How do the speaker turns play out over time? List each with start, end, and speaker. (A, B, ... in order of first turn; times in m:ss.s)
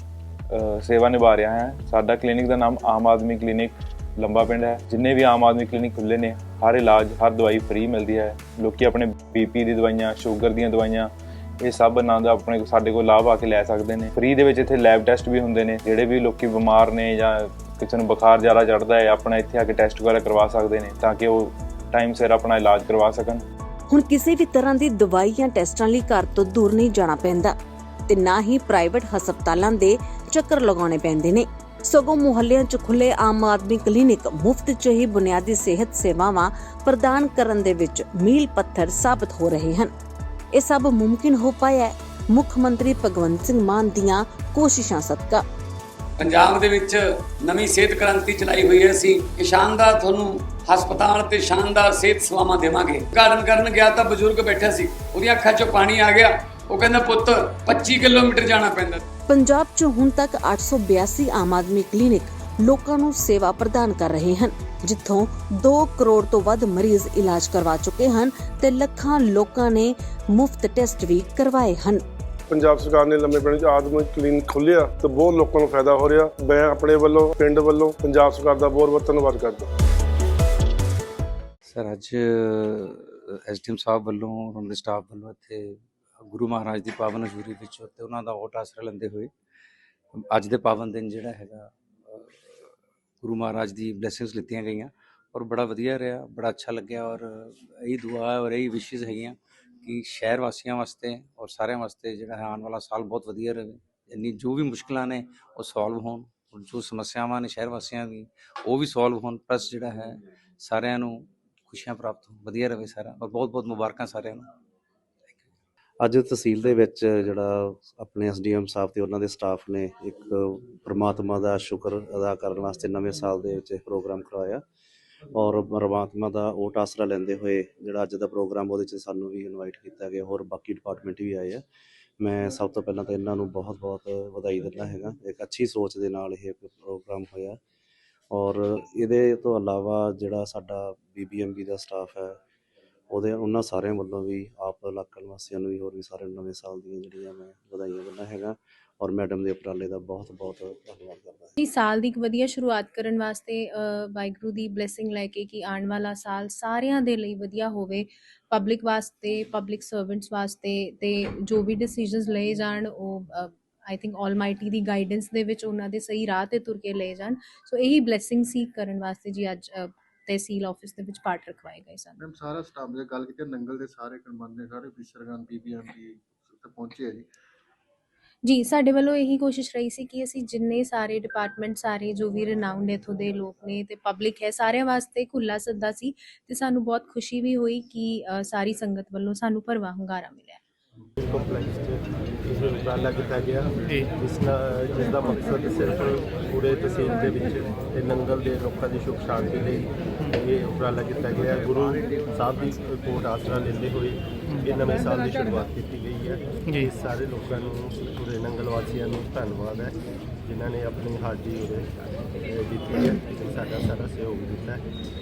0:00.5-0:11.1 A
0:11.6-0:23.4 A
0:23.9-0:27.6 B
0:28.1-0:39.9 B
0:40.5-0:45.4 B
0:46.2-0:59.0 C
0:59.3-1:12.0 B
1:12.5-1:19.7 D
1:21.7-1:29.3 E
1:30.3-1:32.6 E
1:33.2-1:54.5 E
1:56.0-2:04.6 F
2:05.3-2:11.6 F
2:12.2-2:17.6 F
2:18.3-2:22.4 F
2:23.1-2:31.6 F
2:31.6-2:52.2 G
2:52.2-2:57.3 H
2:58.4-3:10.6 G
3:11.2-3:31.9 I
3:32.4-3:34.8 I